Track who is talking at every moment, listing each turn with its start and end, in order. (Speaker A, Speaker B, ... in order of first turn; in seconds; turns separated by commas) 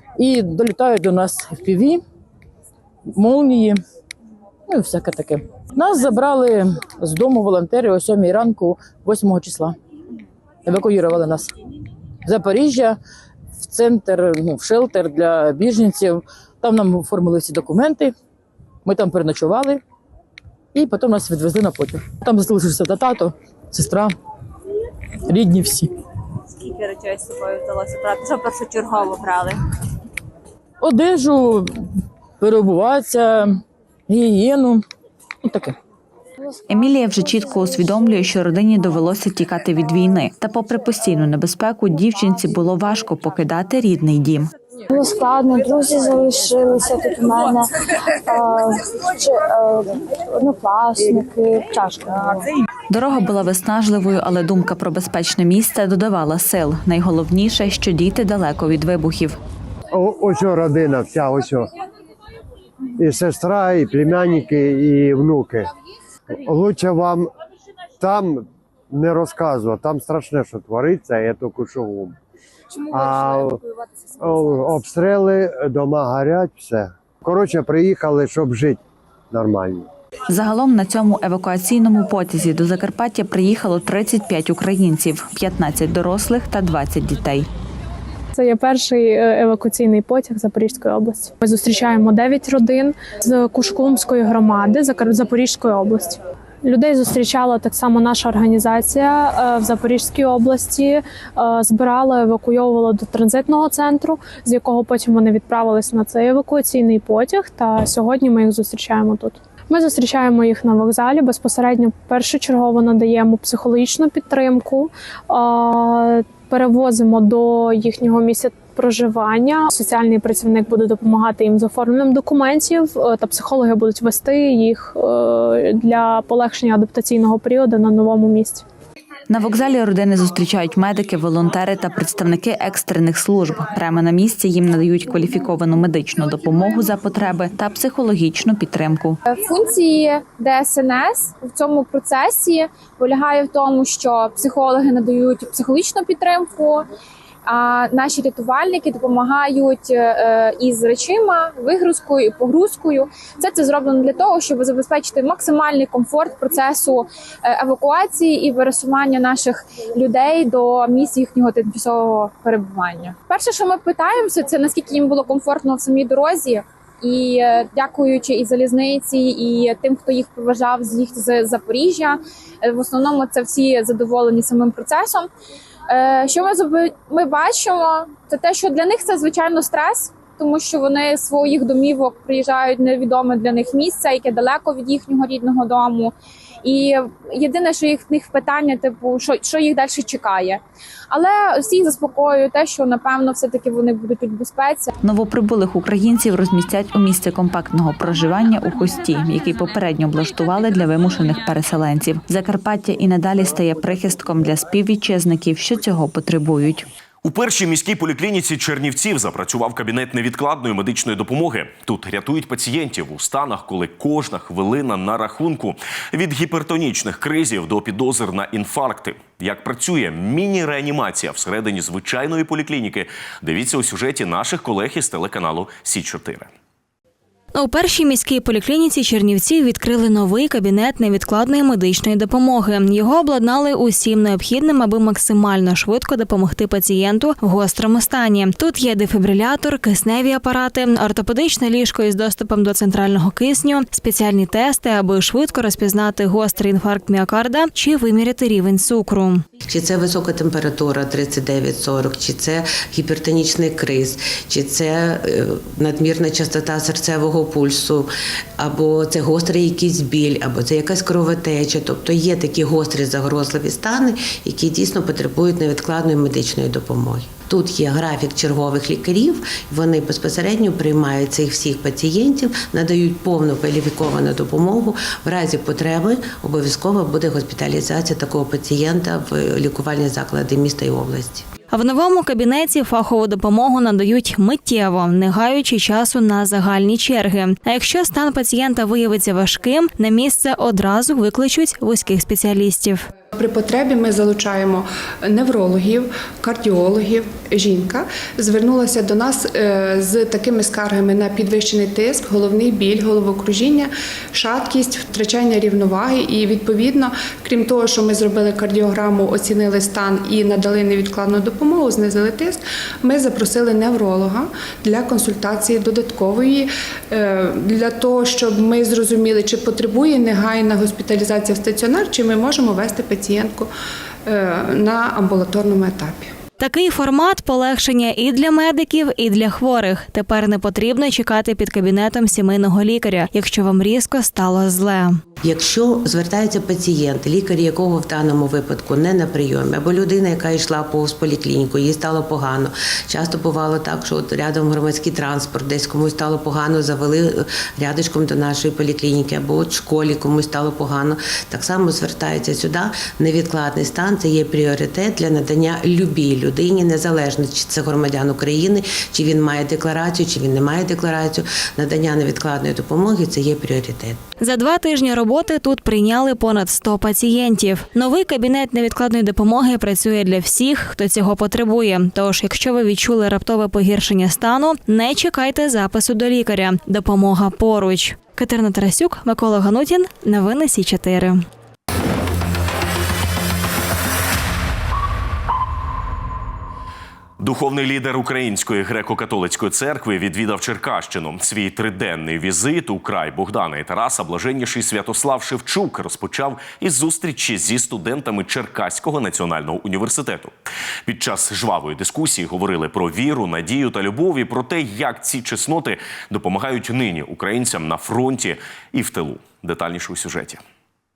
Speaker A: 0.2-2.0, Speaker A: 3.1-3.8, Speaker A: 4.7-9.8, Speaker A: 10.7-11.5, Speaker A: 12.2-13.0, Speaker A: 13.6-18.1, Speaker A: 18.9-19.8, Speaker A: 20.8-24.1, Speaker A: 25.3-25.9, Speaker B: 26.6-29.6, Speaker A: 30.8-31.9, Speaker A: 32.4-34.9, Speaker A: 35.4-35.8, Speaker C: 36.7-44.5, Speaker D: 44.9-47.7, Speaker D: 48.3-52.5, Speaker C: 52.9-59.4, Speaker E: 59.9-61.7, Speaker E: 63.0-65.7, Speaker E: 66.3-67.3, Speaker E: 68.0-72.2, Speaker E: 72.9-73.6, Speaker E: 74.2-79.9, Speaker C: 80.3-87.5, Speaker F: 88.3-128.6, Speaker C: 129.3-139.2, Speaker G: 139.3-146.9, Speaker G: 147.5-175.3, Speaker G: 175.9-186.1, Speaker G: 186.6-194.9, Speaker C: 195.0-206.9, Speaker H: 207.2-226.5, Speaker I: 227.5-249.4, Speaker J: 249.7-281.4, Speaker I: 281.7-293.1, Speaker K: 293.3-323.7, Speaker K: 324.2-326.3, Speaker I: 326.6-335.2, Speaker J: 335.4-364.2, Speaker I: 364.4-381.4, Speaker H: 387.4-400.5, Speaker H: 401.1-410.6